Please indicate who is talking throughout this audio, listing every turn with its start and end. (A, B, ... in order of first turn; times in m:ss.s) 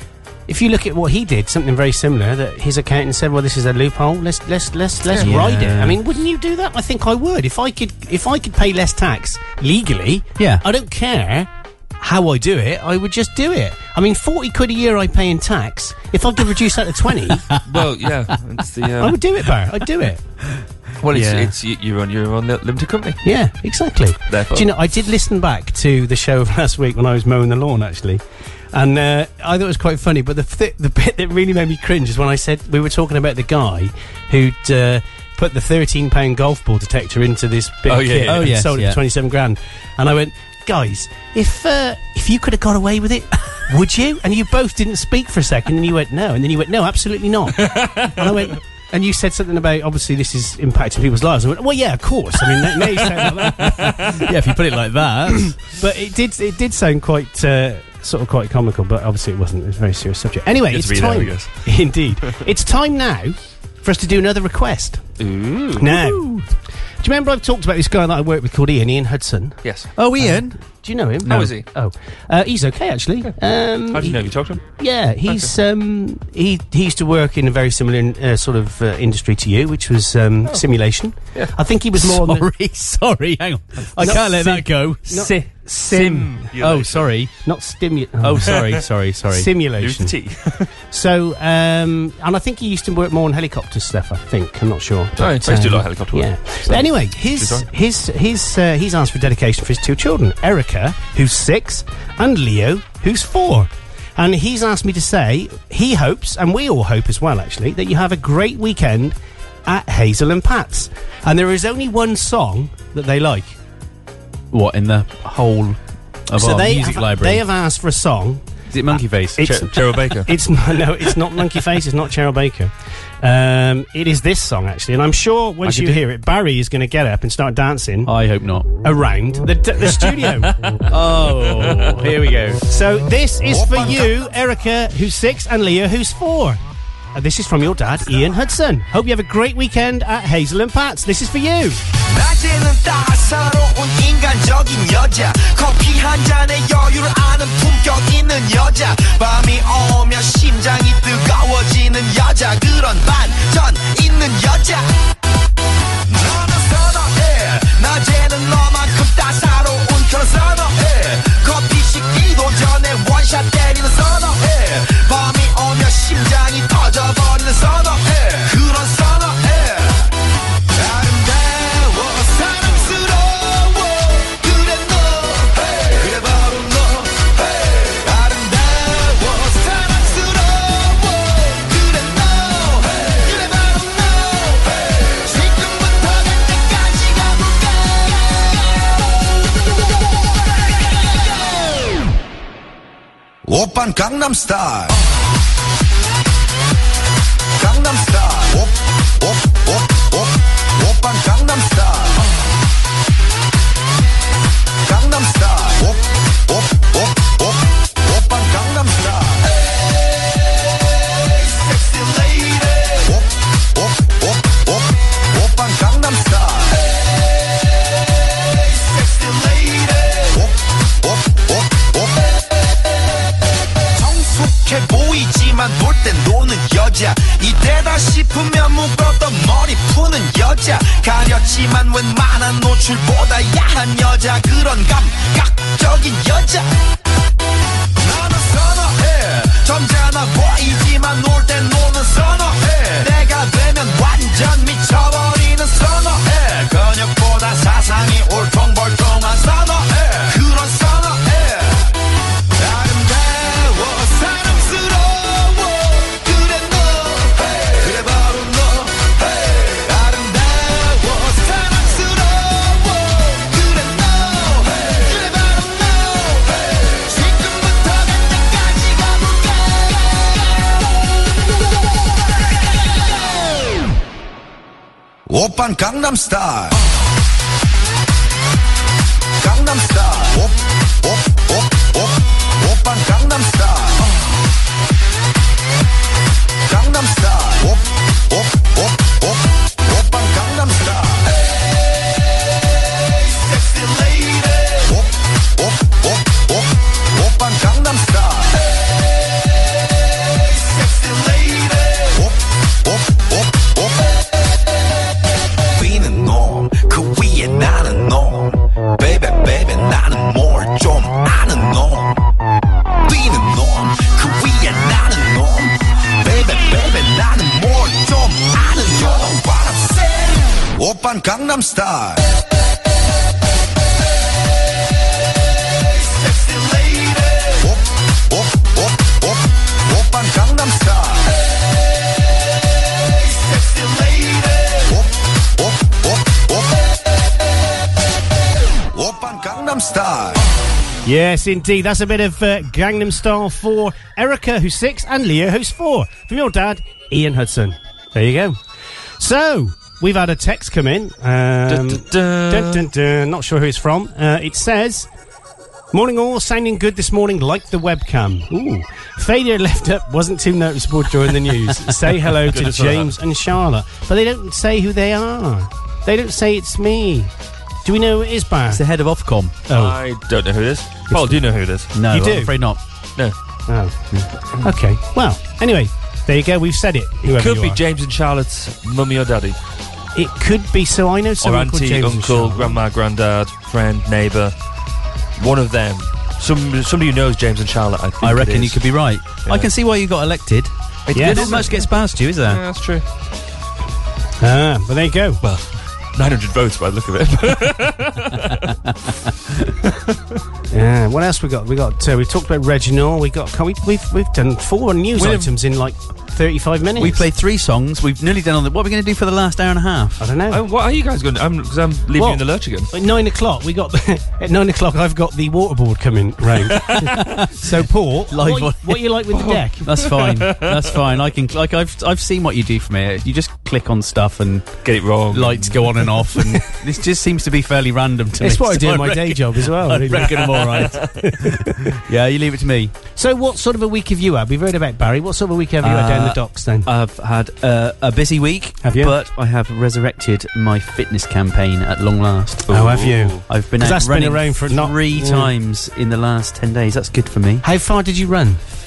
0:00.5-0:17.4 A
0:05.2-0:06.0 B
0:10.4-0:10.6 B
0:17.6-0:19.2 C
0:19.0-0:20.2 A
0:21.0-0:23.2 C
0:21.1-0:21.5 B
0:23.2-0:54.2 A
0:24.3-0:24.7 C
0:37.9-0:38.5 C
0:38.2-0:39.0 B
0:47.6-0:48.3 C
0:53.6-0:55.5 B
0:55.6-1:05.1 A
1:00.7-1:02.3 C
1:05.2-1:05.9 C
1:05.8-1:06.3 A
1:05.9-1:06.4 B
1:07.0-1:09.6 A
1:09.6-1:09.9 C
1:10.0-1:10.6 B
1:10.2-1:22.4 A
1:11.2-1:11.5 B
1:11.3-1:11.7 C
1:13.9-1:14.6 C
1:22.0-1:25.2 B
1:23.9-1:24.2 C
1:24.0-1:26.4 A
1:25.1-1:27.1 C
1:26.6-1:27.3 B
1:27.4-1:28.6 A
1:28.2-1:29.5 B
1:29.3-1:30.1 A
1:29.8-1:30.7 C
1:30.9-1:53.6 A
1:35.2-1:37.7 C
1:54.5-1:57.4 B
1:56.3-1:58.4 A
1:58.7-1:59.7 B
1:59.4-2:08.1 A
1:59.4-2:00.3 C
2:05.6-2:06.0 B
2:08.0-2:08.7 B
2:08.8-2:10.5 A
2:10.9-2:12.6 B
2:12.7-2:16.6 A
2:13.5-2:14.1 D
2:17.1-2:21.8 A
2:22.1-2:34.9 D
2:36.1-2:50.1 D
2:50.7-3:08.9 D
3:13.4-3:14.9 D
3:17.6-3:22.3 D
3:24.8-3:29.5 D
3:31.2-3:36.9 D
3:38.5-3:42.4 D
3:43.9-3:56.8 D
3:58.0-4:11.9 D
4:12.6-4:30.3 D
4:35.3-4:36.8 D
4:39.4-4:44.2 D
4:46.6-4:51.3 D
4:53.1-4:58.6 D
5:00.5-5:04.1 D
5:05.7-5:12.2 D
5:13.0-5:22.2 D
5:25.9-5:31.3 D
5:33.1-5:36.8 D
5:38.9-5:40.4 D
5:41.0-5:48.6 A
5:49.2-5:55.1 A
5:51.7-5:52.9 C
5:55.9-6:07.3 A
6:02.4-6:03.1 C
6:07.8-6:08.8 A
6:08.7-6:09.5 B
6:09.7-6:10.0 A
6:09.7-6:11.9 C
6:11.1-6:11.4 A
6:11.9-6:12.8 B
6:12.0-6:12.5 A
6:13.7-6:14.0 A
6:14.6-6:17.8 A
6:17.3-6:19.6 C
6:20.1-6:22.8 A
6:21.4-6:24.5 C
6:25.4-6:28.8 C
6:28.2-6:32.6 B
6:31.1-6:31.9 C
6:31.1-6:31.6 A
6:32.4-6:33.0 C
6:34.4-6:35.4 A
6:35.4-6:38.7 C
6:40.7-6:47.2 A
6:45.2-6:45.5 C
6:47.0-6:50.2 B
6:50.2-6:50.6 A
6:50.5-6:52.9 C
6:52.1-7:00.0 A
6:56.9-6:57.6 B
6:58.3-6:59.1 B
6:59.3-7:00.9 C
6:59.8-7:12.9 B
7:04.8-7:06.1 C
7:08.4-7:11.5 A
7:13.2-7:16.9 A
7:15.8-7:22.8 B
7:18.8-7:19.1 A
7:22.7-7:23.4 C
7:22.7-7:25.5 A
7:23.5-7:27.6 B
7:27.6-7:28.6 A